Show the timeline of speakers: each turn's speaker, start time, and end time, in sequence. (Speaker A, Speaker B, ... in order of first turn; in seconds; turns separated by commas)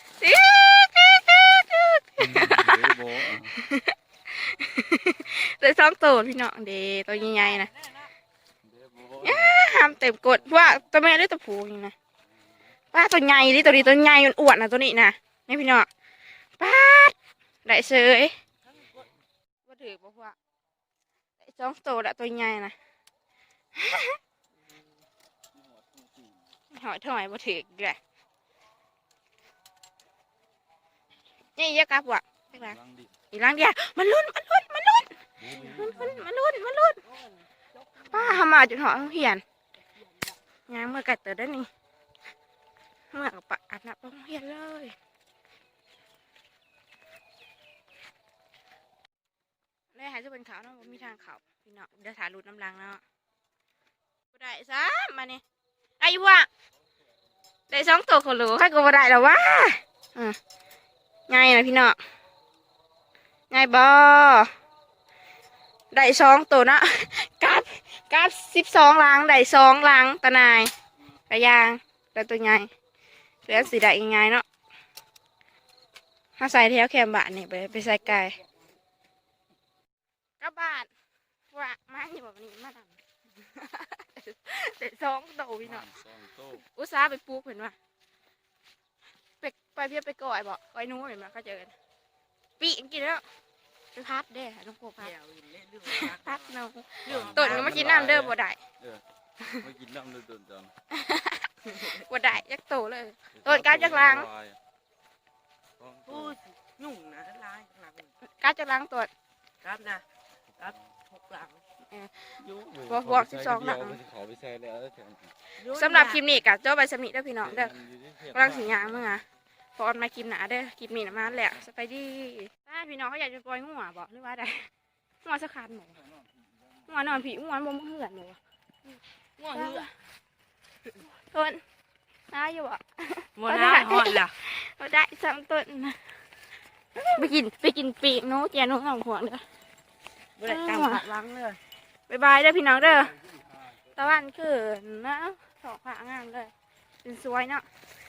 Speaker A: 0.2-7.7, Speaker B: 2.2-3.5, Speaker B: 8.6-9.6, Speaker A: 9.2-11.9, Speaker A: 12.9-15.9, Speaker A: 16.6-17.1, Speaker A: 17.6-18.4, Speaker A: 19.7-20.4, Speaker A: 21.4-22.7, Speaker A: 23.7-24.2, Speaker B: 25.6-26.4, Speaker A: 26.7-28.0, Speaker A: 31.6-32.8, Speaker B: 32.5-33.1, Speaker A: 33.3-37.0, Speaker B: 35.4-36.3, Speaker C: 37.1-38.2, Speaker A: 38.0-39.4, Speaker C: 40.0-40.4, Speaker A: 40.7-41.7, Speaker A: 43.1-44.9, Speaker A: 49.9-53.0, Speaker A: 54.3-55.4, Speaker A: 56.0-56.5, Speaker A: 57.7-60.4, Speaker A: 61.3-62.0, Speaker A: 63.5-64.5, Speaker A: 65.9-70.7, Speaker A: 71.3-72.7, Speaker A: 73.4-74.4, Speaker A: 76.4-78.4, Speaker A: 80.4-80.9, Speaker A: 81.5-85.9, Speaker B: 85.6-86.6, Speaker A: 86.5-87.8, Speaker A: 89.4-91.7, Speaker A: 92.6-93.2, Speaker A: 93.9-95.1, Speaker C: 95.0-96.5, Speaker A: 95.8-98.6, Speaker C: 97.0-98.1, Speaker B: 97.1-99.0, Speaker B: 99.6-100.7, Speaker A: 100.9-104.3, Speaker C: 101.7-102.0, Speaker B: 103.3-104.6, Speaker B: 105.8-106.4, Speaker C: 106.0-108.1, Speaker A: 108.2-109.1, Speaker C: 109.6-110.0, Speaker C: 110.6-111.6, Speaker A: 111.8-114.0, Speaker B: 112.4-115.3, Speaker C: 115.6-116.4, Speaker A: 115.7-119.2, Speaker B: 117.4-119.2, Speaker A: 119.8-124.7, Speaker A: 125.2-126.0, Speaker A: 126.8-128.4, Speaker C: 129.4-129.9, Speaker A: 129.5-129.9, Speaker A: 131.2-131.6, Speaker A: 132.3-136.2, Speaker C: 133.3-134.3, Speaker A: 137.1-139.4, Speaker C: 140.4-141.6, Speaker A: 140.4-141.0, Speaker A: 142.1-143.2, Speaker A: 143.9-146.5, Speaker A: 147.0-147.7